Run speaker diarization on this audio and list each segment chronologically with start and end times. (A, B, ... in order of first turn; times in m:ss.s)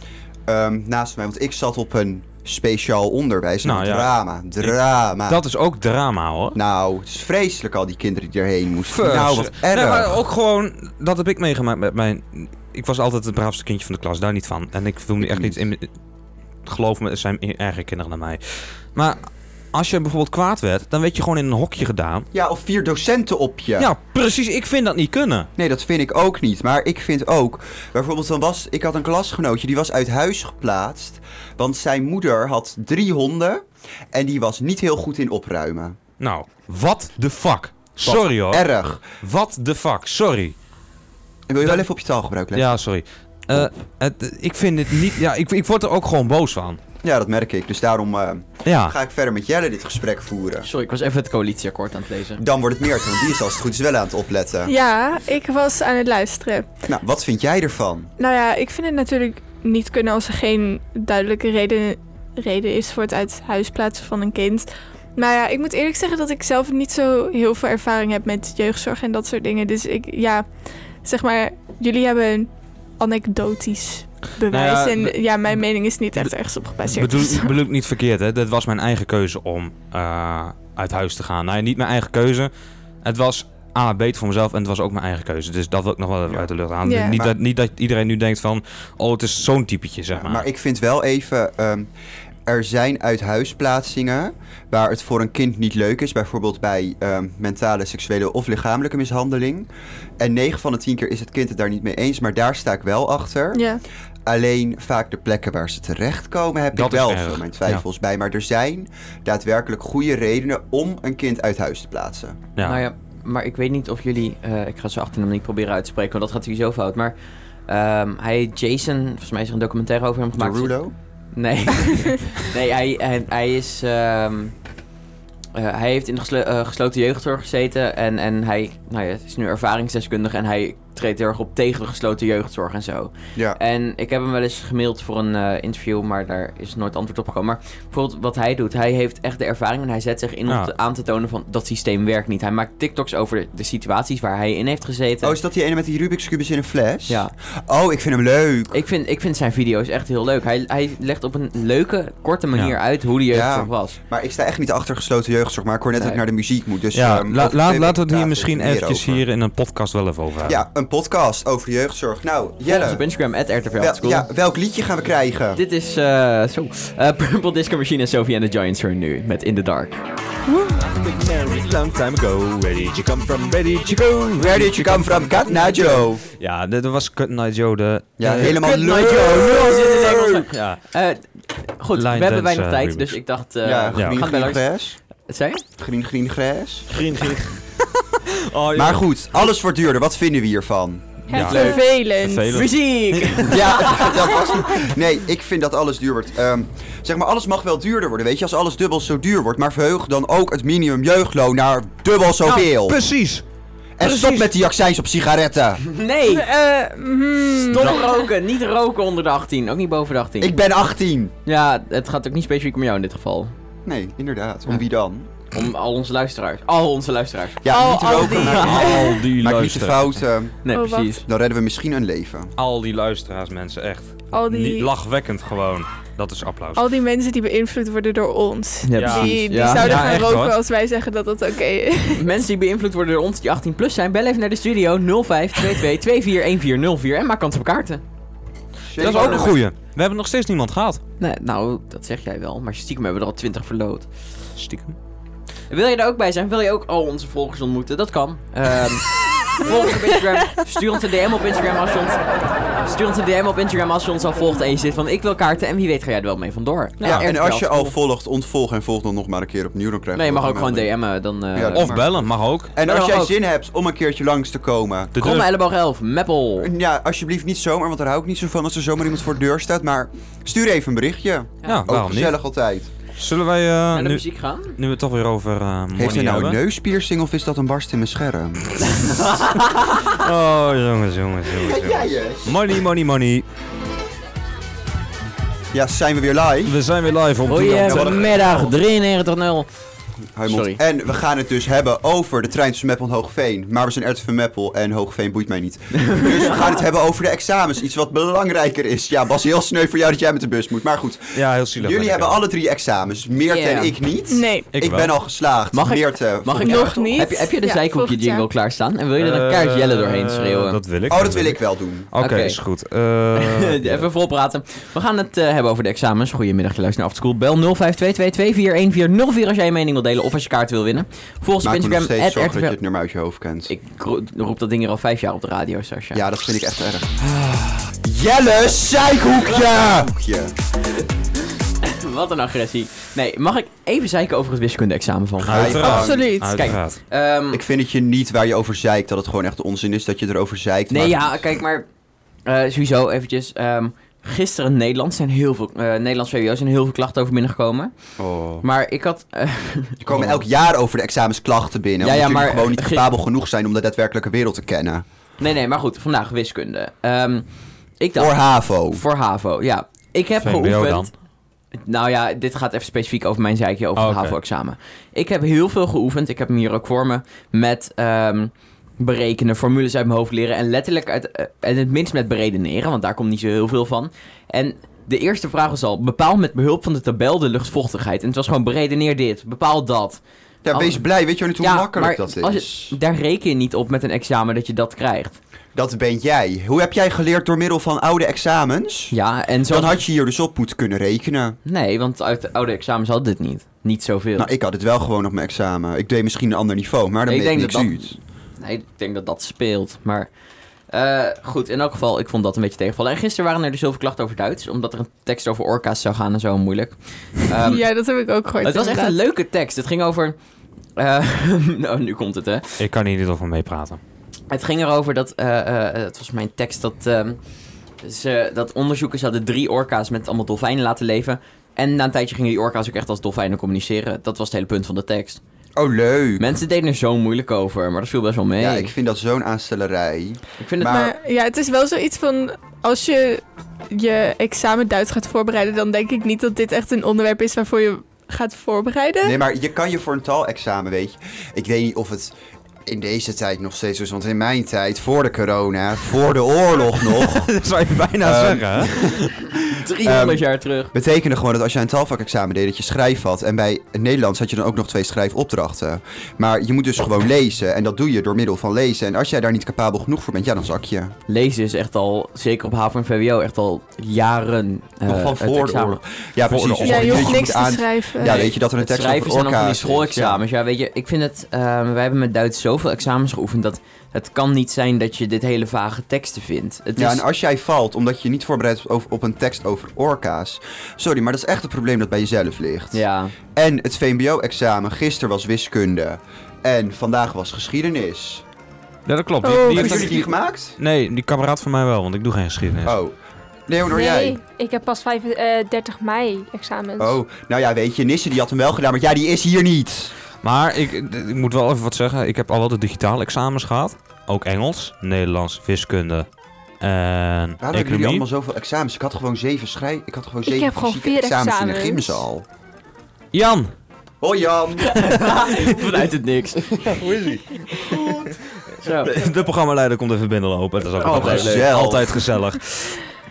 0:00.5-0:05.4 A
0:03.6-0:06.6 B
0:06.5-0:10.2 A
0:08.8-0:15.9 B
0:15.2-0:15.6 A
0:16.6-0:22.3 B
0:22.3-0:23.9 A
0:23.8-0:25.5 B
0:25.6-0:36.0 A
0:36.2-0:40.5 B
0:38.0-0:39.0 A
0:41.5-0:42.7 A
0:42.5-0:46.8 B
0:47.0-0:50.7 A
0:48.6-0:48.9 B
0:50.6-0:52.4 C
0:52.4-0:54.7 A
0:54.7-0:56.7 D
0:56.8-0:58.1 A
0:58.2-1:10.5 D
1:11.0-1:17.5 D
1:14.5-1:15.6 B
1:16.8-1:22.5 B
1:23.0-1:30.5 B
1:26.8-1:27.2 D
1:27.1-1:27.3 A
1:30.1-1:31.9 A
1:32.4-1:39.7 A
1:40.2-1:43.7 A
1:43.5-1:43.8 D
1:44.2-1:52.4 A
1:46.7-1:47.8 B
1:52.6-1:52.8 B
1:52.6-1:57.1 C
1:57.7-2:00.8 C
2:00.4-2:00.9 A
2:01.3-2:04.6 C
2:05.5-2:25.4 C
2:25.2-2:28.8 A
2:27.1-2:27.3 C
2:28.7-2:34.0 C
2:33.3-2:39.2 A
2:36.9-2:40.6 B
2:40.4-2:43.0 A
2:42.6-2:44.3 C
2:43.8-2:45.6 A
2:45.5-2:50.0 C
2:50.5-2:59.4 B
2:54.4-2:56.2 A
2:58.2-3:00.4 A
2:58.4-3:05.6 C
3:00.4-3:00.8 B
3:01.9-3:03.2 B
3:03.6-3:05.0 A
3:04.0-3:04.2 B
3:05.8-3:06.9 A
3:06.9-3:07.8 B
3:08.5-3:09.0 B
3:08.7-3:11.1 A
3:11.3-3:13.5 B
3:11.3-3:12.6 D
3:11.4-3:11.9 C
3:12.5-3:14.5 C
3:13.5-3:23.0 A
3:22.4-3:23.4 B
3:24.0-3:25.8 A
3:24.0-3:24.5 B
3:25.9-3:26.5 C
3:26.3-3:28.1 D
3:27.6-3:30.6 C
3:30.4-3:31.3 A
3:31.4-3:33.5 C
3:33.8-3:35.3 A
3:35.5-3:39.0 C
3:37.6-3:40.7 A
3:37.7-3:39.1 D
3:38.5-3:40.2 B
3:40.6-3:41.2 C
3:40.7-3:41.2 D
3:41.2-3:42.5 A
3:42.6-3:46.8 B
3:44.3-3:44.9 D
3:46.8-3:52.3 D
3:48.8-3:50.3 C
3:48.9-3:50.6 B
3:52.1-3:58.0 C
3:58.9-3:59.6 A
3:59.0-4:01.0 B
4:01.2-4:04.1 C
4:04.6-4:05.0 B
4:05.7-4:12.2 C
4:12.8-4:17.9 C
4:17.0-4:17.3 B
4:17.0-4:20.9 A
4:20.1-4:22.0 C
4:21.5-4:25.1 A
4:21.7-4:22.7 B
4:22.8-4:23.3 C
4:25.1-4:25.5 B
4:25.2-4:26.7 C
4:26.6-4:32.9 A
4:31.6-4:32.4 B
4:33.2-4:36.6 B
4:33.9-4:34.8 C
4:35.9-4:38.9 A
4:38.9-4:40.1 C
4:40.1-4:43.4 B
4:41.5-4:42.6 A
4:45.7-4:46.8 A
4:46.6-4:48.6 B
4:47.5-4:49.7 C
4:47.8-4:48.7 A
4:50.3-5:07.3 A
4:50.5-4:50.8 C
4:56.0-4:56.6 C
5:01.3-5:02.4 B
5:03.4-5:04.0 C
5:04.3-5:04.7 D
5:04.7-5:05.1 B
5:05.7-5:10.8 C
5:06.6-5:08.4 D
5:09.2-5:11.6 B
5:11.1-5:12.1 A
5:12.1-5:14.1 B
5:12.2-5:12.6 C
5:13.3-5:22.8 C
5:21.6-5:23.7 A
5:23.7-5:26.2 C
5:26.1-5:30.5 A
5:29.5-5:30.0 C
5:31.8-5:37.6 C
5:35.4-5:36.3 A
5:35.4-5:37.0 B
5:35.8-5:36.6 D
5:37.5-5:41.5 A
5:40.9-5:41.8 C
5:42.4-5:47.9 C
5:48.2-5:48.6 A
5:48.6-5:50.4 C
5:50.0-5:55.0 A
5:52.0-5:53.1 C
5:55.4-5:57.4 C
5:58.0-6:01.1 C
5:58.1-5:59.0 A
6:00.4-6:01.1 B
6:01.7-6:25.4 C
6:04.0-6:04.4 B
6:20.6-6:22.9 A
6:25.7-6:29.1 A
6:29.1-6:30.0 C
6:29.7-6:31.6 A
6:31.6-6:34.5 C
6:34.4-6:38.1 A
6:37.3-6:40.3 C
6:40.9-6:47.8 C
6:47.6-6:49.1 D
6:48.6-6:50.4 C
6:51.0-6:52.8 C
6:52.8-6:54.0 B
6:54.5-6:57.4 C
6:58.0-7:05.4 C
7:05.8-7:06.5 A
7:06.4-7:08.9 C
7:08.6-7:11.1 A
7:10.6-7:11.0 C
7:10.8-7:19.4 D
7:19.2-7:22.3 A
7:22.8-7:27.5 A
7:27.2-7:29.3 B
7:28.2-7:29.4 A
7:29.7-7:30.9 C
7:30.0-7:41.1 A
7:41.3-7:46.0 C
7:45.0-7:50.4 A
7:46.4-7:47.4 B
7:46.8-7:48.4 D
7:48.2-7:57.2 C
7:57.0-8:08.4 A
8:02.9-8:03.3 C
8:09.0-8:13.0 B
8:09.4-8:10.3 D
8:09.7-8:10.8 A
8:12.8-8:13.2 A
8:13.7-8:14.4 A
8:13.9-8:17.2 E
8:17.0-8:20.1 A
8:20.4-8:26.3 B
8:26.8-8:28.2 B
8:27.6-8:32.4 A
8:30.4-8:32.2 E
8:33.3-8:33.7 B
8:34.2-8:35.6 A
8:34.8-8:37.1 C
8:37.0-8:38.0 B
8:38.8-8:39.1 C
8:39.0-8:43.0 B
8:41.0-8:42.0 C
8:41.1-8:42.2 A